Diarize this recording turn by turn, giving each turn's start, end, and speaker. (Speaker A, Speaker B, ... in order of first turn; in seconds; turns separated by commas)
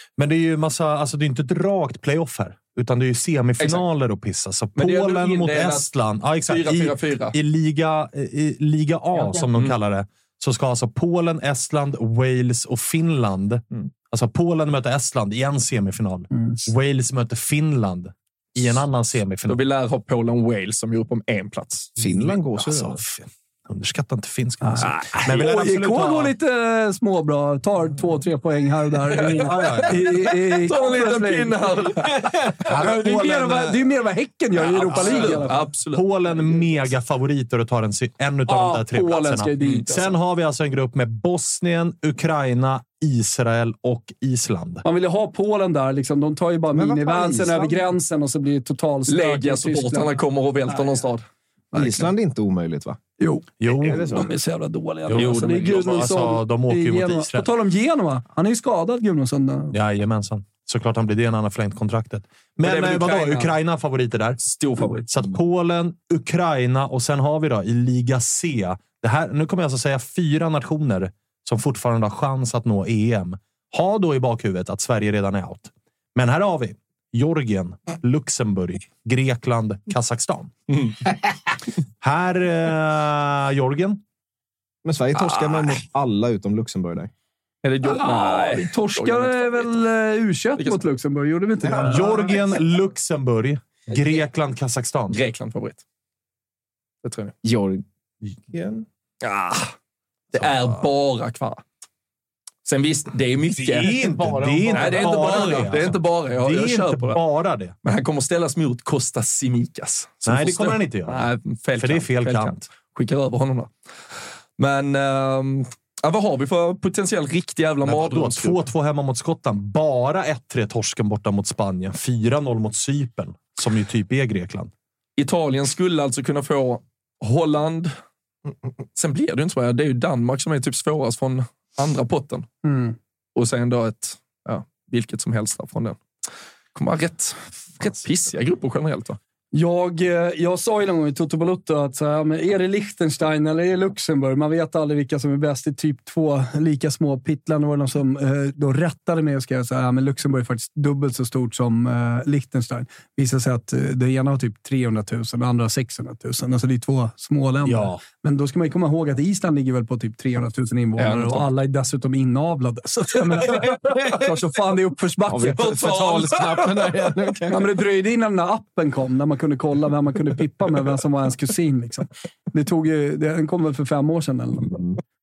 Speaker A: 0.2-19.6, Speaker B: 3.6-3.8, Speaker B: 4.8-5.9, Speaker B: 6.5-7.4, Speaker B: 19.5-21.9, Speaker C: 22.0-23.0, Speaker A: 22.0-26.3, Speaker D: 24.6-31.6, Speaker B: 29.2-29.9, Speaker A: 29.4-30.0, Speaker B: 30.6-32.2, Speaker A: 32.6-33.8, Speaker D: 32.7-35.6, Speaker B: 34.7-36.1, Speaker A: 34.8-44.9, Speaker D: 38.5-40.1, Speaker D: 44.8-50.1, Speaker C: 46.7-47.9, Speaker B: 49.1-51.2, Speaker D: 51.7-52.1, Speaker C: 51.7-53.0, Speaker D: 53.2-59.8, Speaker A: 53.6-54.3, Speaker C: 53.8-54.3, Speaker A: 55.1-57.5, Speaker B: 55.1-56.1, Speaker A: 59.7-64.4, Speaker B: 62.6-63.5, Speaker B: 64.4-65.3, Speaker A: 65.1-80.5, Speaker A: 82.0-84.0, Speaker C: 84.8-87.1, Speaker B: 85.2-85.8, Speaker B: 87.6-89.7, Speaker D: 87.8-92.4, Speaker C: 91.7-92.0, Speaker A: 91.8-95.2, Speaker B: 95.1-95.8, Speaker B: 97.0-97.3, Speaker C: 97.4-98.8, Speaker B: 99.2-99.7, Speaker B: 100.3-101.6, Speaker A: 100.4-100.6, Speaker B: 102.7-107.2, Speaker A: 103.6-107.8, Speaker C: 104.8-105.1, Speaker B: 107.8-113.7, Speaker A: 110.2-112.6, Speaker B: 114.6-118.7, Speaker A: 117.8-124.7, Speaker B: 125.2-127.9, Speaker B: 129.0-132.5, Speaker D: 132.6-133.0, Speaker B: 133.4-136.0, Speaker B: 136.8-139.2, Speaker D: 139.5-165.6, Speaker A: 157.7-158.0, Speaker B: 161.0-161.4, Speaker C: 163.8-164.3, Speaker C: 165.3-167.8, Speaker B: 165.6-167.0, Speaker D: 167.5-174.8